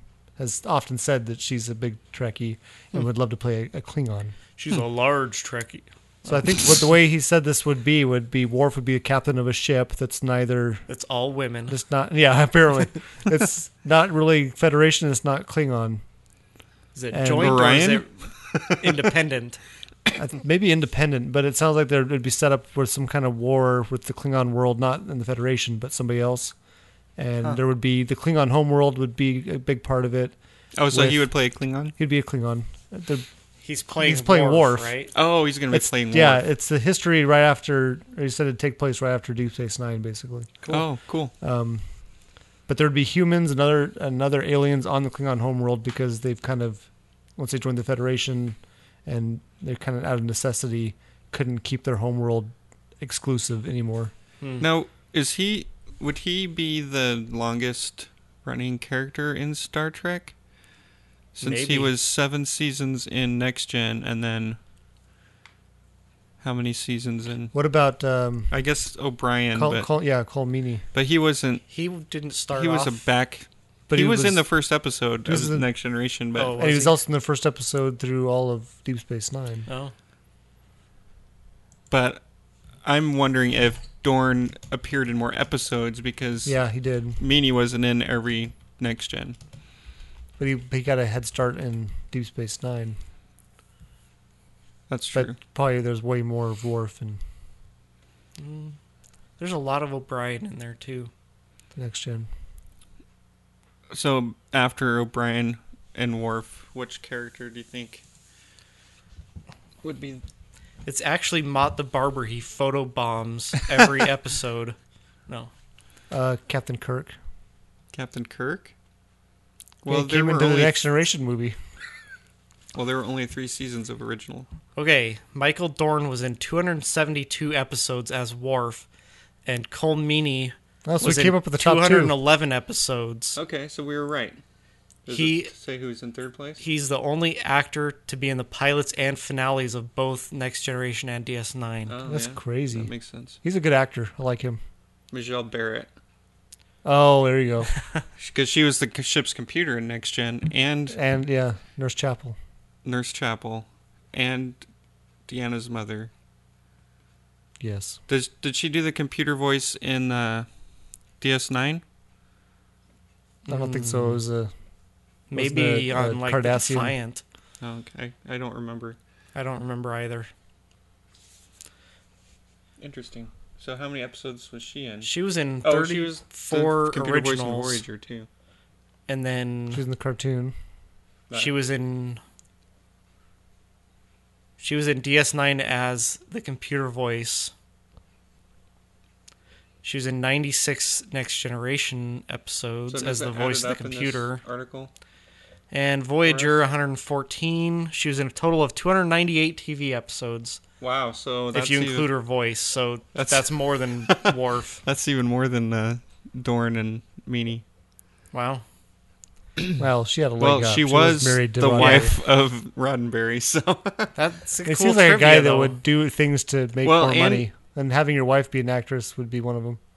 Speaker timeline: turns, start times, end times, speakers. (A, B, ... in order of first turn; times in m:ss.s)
0:00.4-0:04.3 A
0:04.6-0:06.4 B
0:06.2-0:10.9 A
0:10.9-0:11.8 B
0:11.7-0:16.0 A
0:17.0-0:18.1 B
0:17.1-0:17.7 A
0:17.3-0:19.0 C
0:18.6-0:19.6 B
0:20.2-0:26.6 A
0:27.2-0:30.3 A
0:30.8-0:32.0 C
0:30.9-0:31.3 A
0:32.0-0:33.3 A
0:33.6-0:35.1 B
0:34.0-0:35.0 A
0:35.1-0:36.4 C
0:35.7-0:40.8 A
0:40.6-0:41.3 C
0:41.4-0:41.8 A
0:42.7-0:54.1 A
0:54.6-1:00.4 C
1:01.3-1:04.6 C
1:01.4-1:01.9 B
1:06.4-1:07.6 C
1:07.5-1:08.5 A
1:08.5-1:09.9 C
1:09.5-1:10.8 A
1:10.9-1:11.7 C
1:11.7-1:13.0 B
1:12.5-1:16.6 C
1:13.9-1:14.6 A
1:15.2-1:15.7 A
1:16.3-1:17.0 B
1:16.6-1:19.7 A
1:19.7-1:19.9 B
1:21.9-1:22.2 C
1:22.8-1:26.6 C
1:26.4-1:27.2 A
1:27.2-1:29.4 C
1:30.4-1:33.0 A
1:34.9-1:35.4 C
1:35.1-1:37.2 A
1:38.4-1:38.8 B
1:39.4-1:41.1 B
1:41.7-1:42.3 A
1:43.9-1:48.0 C
1:49.8-1:50.2 C
1:50.8-1:54.8 B
1:56.1-1:57.2 A
1:57.9-1:58.7 C
1:59.8-2:00.8 C
1:59.9-2:01.6 A
2:02.7-2:04.5 C
2:04.8-2:08.9 B
2:09.4-2:13.4 B
2:10.8-2:12.2 A
2:13.4-2:14.4 C
2:15.0-2:16.6 C
2:15.1-2:15.5 B
2:16.6-2:22.0 B
2:21.9-2:23.4 C
2:22.0-2:24.6 A
2:25.1-2:25.9 C
2:26.8-2:27.7 A
2:28.2-2:31.0 C
2:30.9-2:32.4 A
2:32.8-2:34.6 C
2:35.3-2:36.1 C
2:37.6-2:38.0 A
2:38.1-2:40.5 C
2:41.2-2:41.8 C
2:43.4-2:44.2 B
2:43.5-2:44.5 A
2:45.3-2:47.2 B
2:45.3-2:47.0 A
2:47.6-2:49.0 C
2:49.3-2:50.3 B
2:52.8-2:55.1 C
2:55.0-2:57.8 B
2:55.6-2:58.3 C
2:59.1-2:59.8 B
2:59.7-3:00.6 A
3:01.3-3:02.2 B
3:04.6-3:07.5 B
3:09.8-3:14.4 B
3:12.9-3:14.9 C
3:15.7-3:20.6 B
3:16.2-3:16.6 C
3:20.8-3:22.1 C
3:21.5-3:24.8 B
3:23.1-3:27.6 C
3:28.3-3:28.6 B
3:29.8-3:32.1 A
3:30.4-3:34.1 C
3:31.7-3:32.1 B
3:34.1-3:35.8 B
3:34.6-3:39.8 A
3:36.8-3:37.4 C